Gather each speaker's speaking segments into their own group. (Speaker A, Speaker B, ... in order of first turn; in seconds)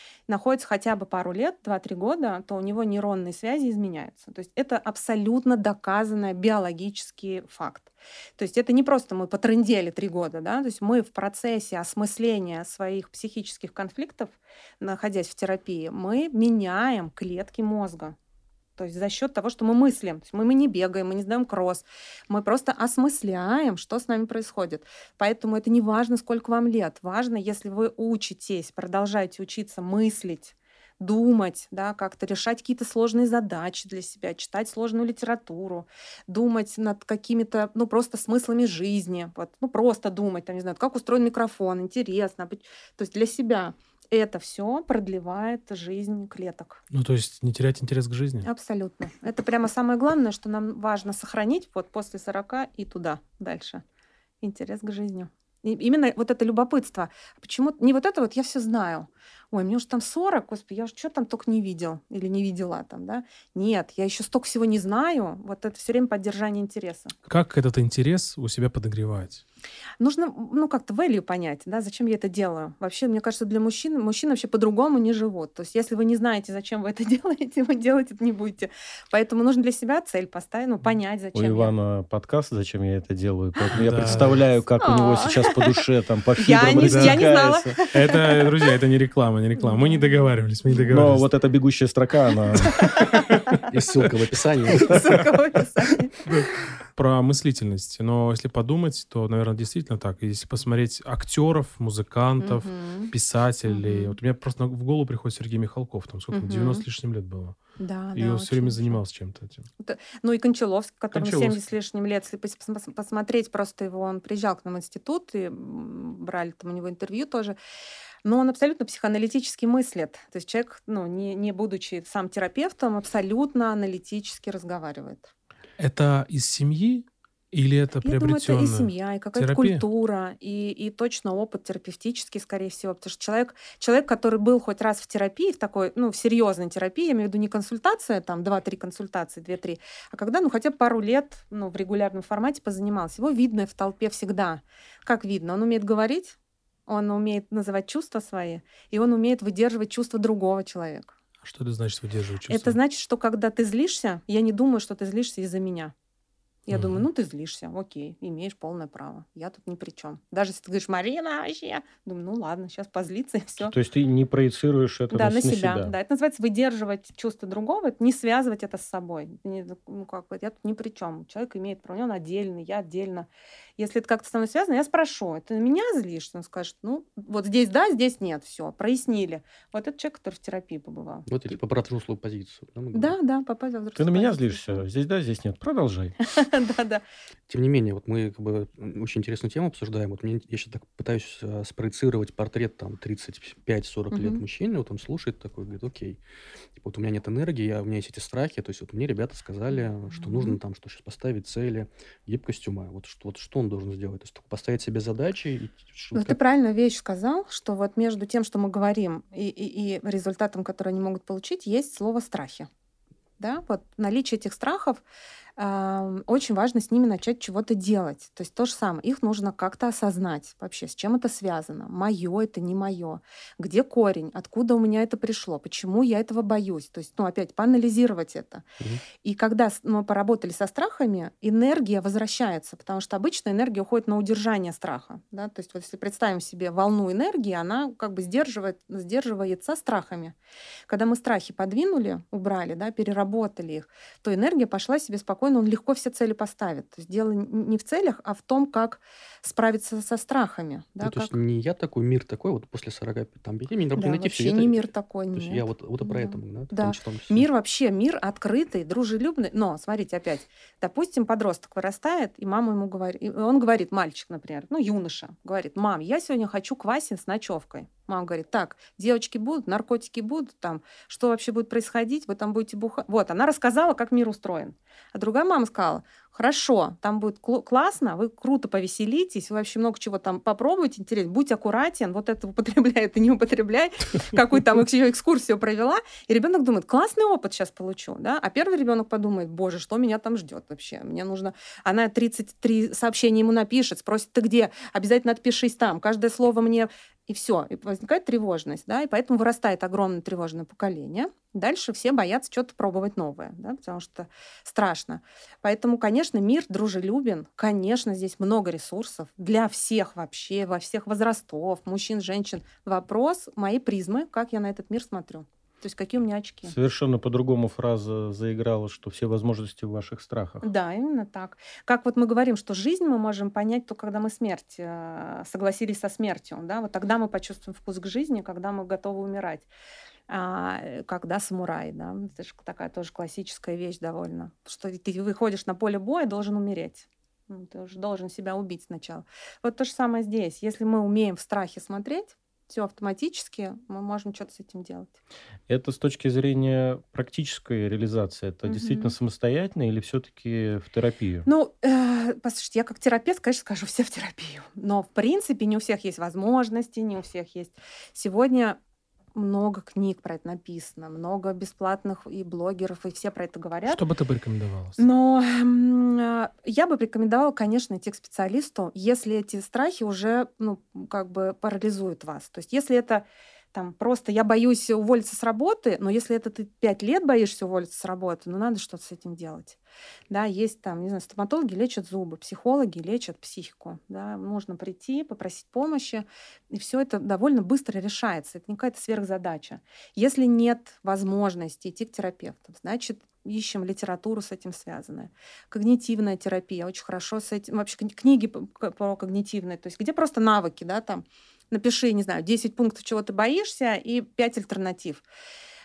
Speaker A: 0.3-18.1, 18.8-46.8, 48.4-53.8, 54.4-67.2, 70.0-81.7, 84.8-85.6, 86.4-88.7, 89.6-91.0, 92.6-93.6, 94.7-96.3, 102.4-103.1, 103.7-104.2, 106.3-106.8, 107.8-109.0, 109.8-117.5, 118.2-125.3, 128.0-146.3, 146.9-151.1, 152.5-155.9, 156.7-163.7, 165.1-181.6, 182.9-184.8, 186.2-187.0, 194.1-194.4, 200.2-200.6, 206.1-212.7, 213.4-215.0, 215.6-228.6, 229.2-240.3, 240.9-251.3, 253.9-316.7, 320.6-329.7, 330.3-345.1, 348.6-349.1, 351.4-358.8, 359.3-364.0, 365.0-379.8, 380.3-405.2
Speaker B: 46.9-48.5, 67.3-69.4, 83.7-84.4, 86.6-91.3, 96.2-107.6, 108.1-109.7, 111.1-111.6, 125.8-129.8, 151.4-152.8, 156.7-157.0, 363.9-365.0
Speaker C: 81.3-87.8, 90.9-93.0, 163.6-165.9, 183.9-186.2, 316.7-320.6, 345.7-351.5
Speaker D: 93.7-95.2, 181.2-183.2, 187.5-196.2, 196.7-206.4, 251.0-257.5